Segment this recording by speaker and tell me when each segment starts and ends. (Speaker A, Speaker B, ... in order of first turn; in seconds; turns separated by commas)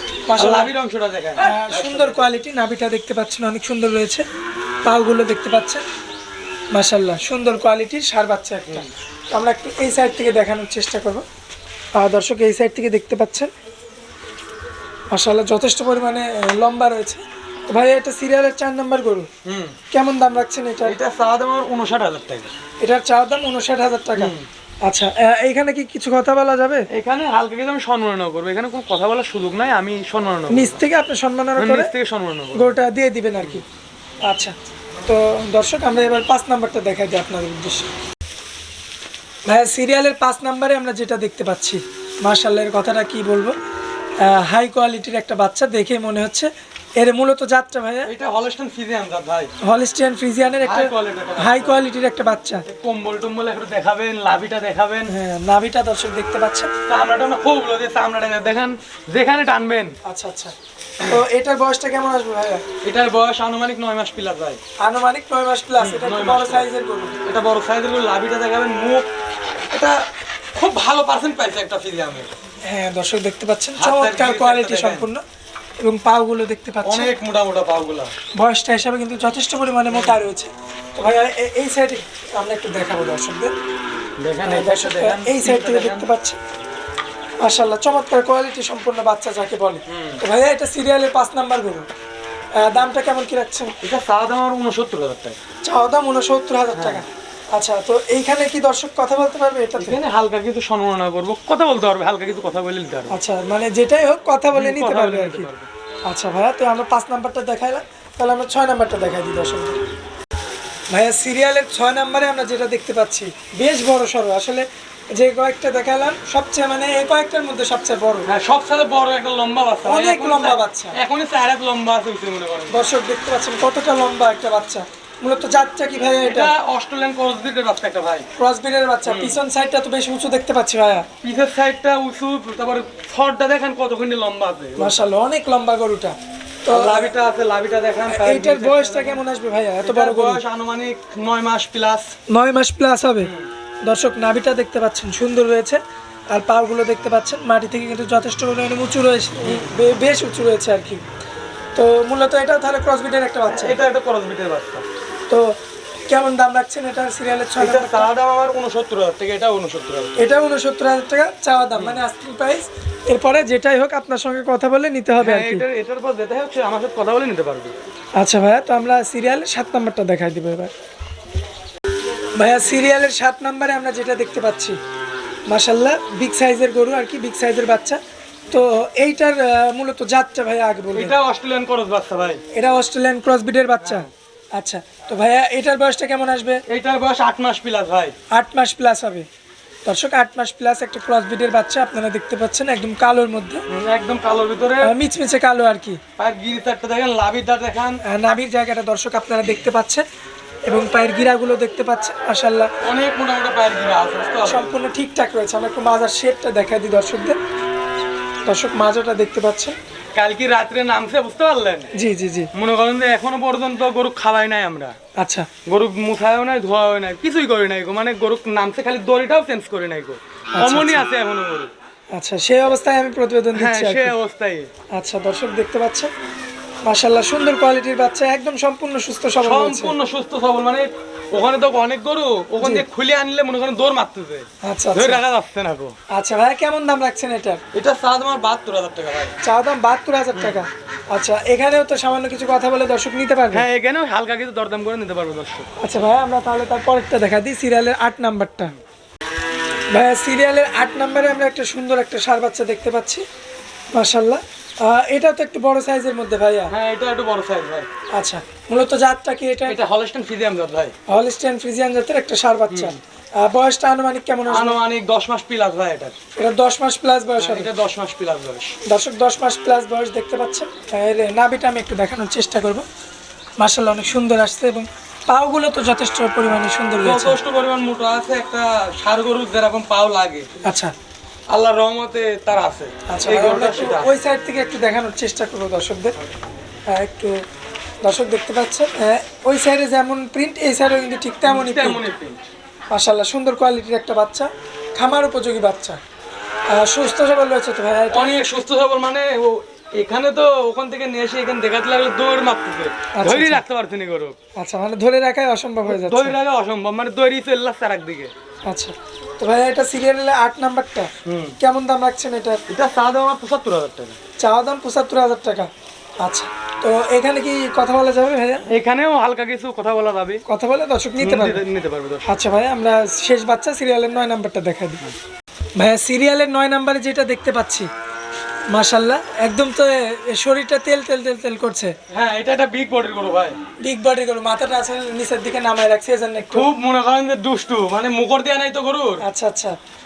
Speaker A: 0.3-0.7, Speaker B: 0.3-2.3, Speaker A: 1.4-4.2, Speaker A: 4.8-5.8, Speaker A: 6.7-11.2, Speaker A: 12.0-13.5, Speaker A: 15.1-19.3, Speaker B: 19.4-19.7, Speaker A: 19.9-21.0, Speaker B: 20.8-22.5, Speaker A: 22.8-26.9, Speaker B: 24.2-24.5, Speaker B: 26.9-30.8, Speaker A: 30.5-31.9, Speaker B: 31.6-32.8, Speaker A: 32.5-33.6, Speaker A: 34.3-34.5, Speaker A: 35.0-37.9, Speaker A: 39.5-43.5, Speaker A: 44.2-48.1, Speaker B: 48.1-49.5, Speaker A: 49.6-52.6, Speaker B: 50.6-51.8, Speaker B: 52.7-55.1, Speaker A: 55.1-56.7, Speaker B: 56.9-59.9, Speaker A: 60.0-62.6, Speaker B: 62.8-64.6, Speaker A: 64.8-67.2, Speaker B: 65.8-66.7, Speaker B: 67.2-69.1, Speaker B: 69.7-70.0, Speaker B: 70.5-72.3, Speaker A: 72.6-75.2, Speaker B: 73.8-75.1, Speaker A: 75.8-77.1, Speaker B: 76.8-78.1, Speaker A: 78.4-83.5, Speaker B: 84.2-86.1, Speaker A: 84.4-86.4, Speaker A: 87.4-91.9, Speaker B: 89.9-90.2, Speaker A: 92.6-93.7, Speaker B: 93.8-95.4, Speaker A: 95.6-100.0, Speaker B: 96.7-97.0, Speaker B: 99.8-103.2, Speaker A: 103.1-105.5, Speaker B: 104.5-105.7, Speaker A: 106.1-109.8, Speaker A: 110.9-118.3, Speaker B: 118.3-122.9, Speaker A: 119.8-121.0, Speaker A: 122.7-126.5, Speaker B: 126.2-128.3, Speaker A: 128.4-131.1, Speaker B: 129.1-129.4, Speaker B: 131.2-135.0, Speaker A: 134.8-137.1, Speaker B: 136.7-139.2, Speaker A: 138.1-140.4, Speaker B: 139.8-142.1, Speaker A: 142.3-143.3, Speaker B: 143.2-143.5, Speaker A: 143.8-151.0, Speaker B: 149.4-149.7, Speaker A: 151.7-153.8, Speaker B: 153.5-154.8, Speaker A: 156.1-158.1, Speaker B: 157.6-160.1, Speaker A: 160.2-165.6, Speaker B: 161.7-162.0, Speaker B: 165.2-167.7, Speaker A: 168.2-170.7, Speaker A: 172.4-174.8, Speaker A: 175.5-178.0, Speaker A: 178.5-181.2, Speaker B: 180.9-182.4, Speaker A: 182.5-186.6, Speaker B: 183.8-184.1, Speaker B: 186.7-188.1, Speaker A: 188.3-189.3, Speaker A: 189.8-193.6, Speaker B: 193.7-194.9, Speaker A: 194.8-196.0, Speaker B: 196.2-198.0, Speaker A: 198.1-200.0, Speaker A: 200.7-202.7, Speaker B: 202.8-204.7, Speaker A: 204.4-207.4, Speaker A: 208.4-209.8, Speaker B: 210.1-211.9, Speaker A: 211.9-212.5, Speaker B: 212.5-214.9, Speaker A: 215.2-215.5, Speaker B: 215.7-221.7, Speaker A: 220.6-221.1, Speaker A: 222.1-224.2, Speaker B: 223.5-224.7, Speaker A: 224.9-226.1, Speaker A: 226.8-229.9, Speaker B: 229.4-235.9, Speaker A: 232.6-232.8, Speaker A: 234.6-235.2, Speaker A: 236.1-237.6, Speaker B: 237.7-239.3, Speaker A: 239.4-243.7, Speaker B: 240.3-240.6, Speaker B: 243.5-245.7, Speaker A: 245.8-248.7, Speaker A: 249.9-253.2, Speaker A: 253.9-256.7, Speaker B: 256.7-257.9, Speaker A: 258.1-259.8, Speaker B: 259.6-260.9, Speaker A: 261.1-264.8, Speaker B: 262.7-263.0, Speaker B: 264.5-266.1, Speaker A: 266.4-267.7, Speaker B: 267.4-268.7, Speaker A: 268.9-272.8, Speaker A: 273.6-277.4, Speaker B: 277.0-280.5, Speaker A: 280.6-280.9, Speaker B: 281.5-284.1, Speaker A: 283.1-286.1, Speaker A: 286.9-287.4, Speaker A: 288.0-292.0, Speaker B: 291.4-292.4, Speaker A: 292.9-296.0, Speaker A: 296.7-298.4, Speaker B: 298.1-304.4, Speaker A: 303.2-303.6, Speaker A: 304.6-306.4, Speaker B: 305.8-308.3, Speaker A: 308.7-312.6, Speaker B: 311.2-311.6, Speaker B: 312.7-314.2, Speaker A: 314.4-318.6, Speaker B: 318.7-320.4, Speaker A: 320.5-321.6, Speaker B: 321.2-322.3, Speaker A: 322.2-325.0, Speaker A: 325.8-327.9, Speaker A: 328.7-331.9, Speaker B: 332.1-333.6, Speaker A: 333.8-336.7, Speaker B: 336.4-339.2, Speaker A: 339.2-339.8